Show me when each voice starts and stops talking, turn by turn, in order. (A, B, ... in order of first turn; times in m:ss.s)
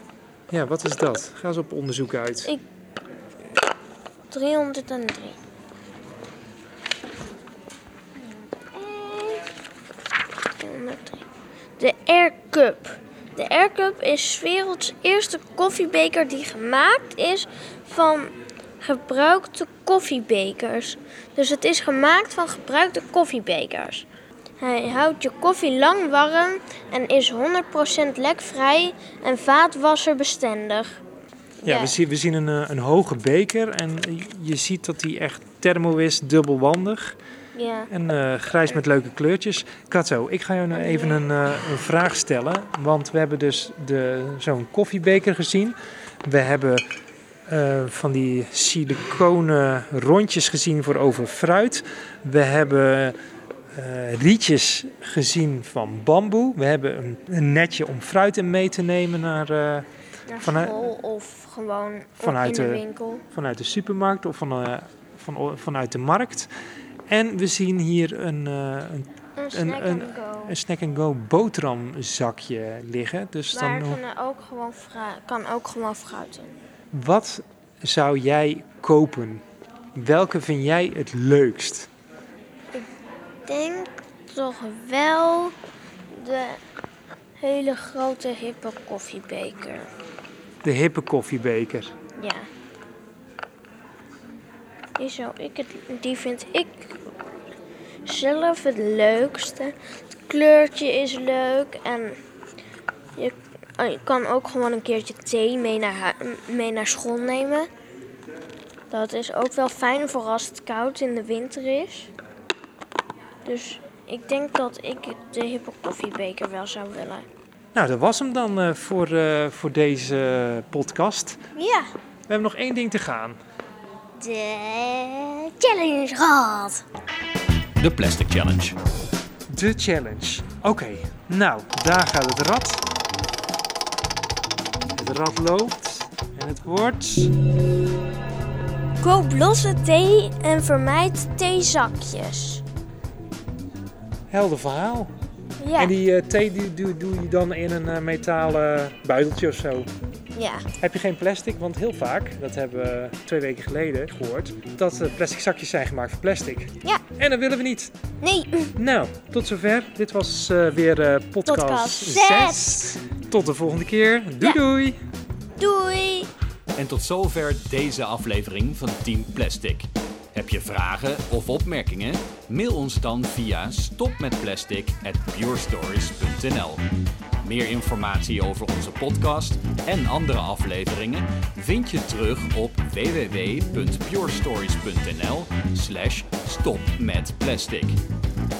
0:00.5-0:02.5 A
0:04.3-0:05.4 B
0:08.7-0:09.5 B
0:10.6-0:11.2 B
0:11.8-0:24.1 B
0:24.6-0:31.0 B
0:31.6-0:32.0 B
0:31.6-0:37.2 A
0:37.6-0:37.9 B
0:37.9-0:46.8 A
0:40.7-0:41.2 B
0:47.5-0:53.2 A
0:53.7-0:59.9 A
1:00.3-1:03.2 B
1:00.4-1:00.8 A
1:02.2-1:06.5 A
1:07.1-1:14.0 A
1:09.4-1:10.6 B
1:13.5-1:16.5 B
1:16.9-1:19.4 A
1:20.0-1:21.9 A
1:23.4-1:25.6 B
1:26.1-1:26.6 B
1:27.4-1:29.9 B
1:30.6-1:31.9 A
1:32.2-1:32.5 B
1:35.0-1:37.1 B
1:38.0-1:39.7 B
1:40.2-1:42.2 B
1:43.2-1:47.7 B
1:48.9-1:52.1 B
1:53.4-1:57.3 B
1:57.8-2:01.4 A
2:01.6-2:01.9 B
2:02.3-2:03.4 A
2:04.2-2:06.8 B
2:07.8-2:08.8 C
2:09.5-2:12.8 A
2:15.0-2:17.3 A
2:19.0-2:22.6 B
2:24.3-2:25.1 A
2:25.6-2:25.9 B
2:25.8-2:29.9 A
2:30.4-2:30.7 B
2:30.8-2:37.9 A
2:38.2-2:38.7 B
2:38.8-2:45.0 A
2:41.5-2:43.0 B
2:45.6-2:46.3 B
2:46.8-2:56.8 C
2:57.4-3:08.0 C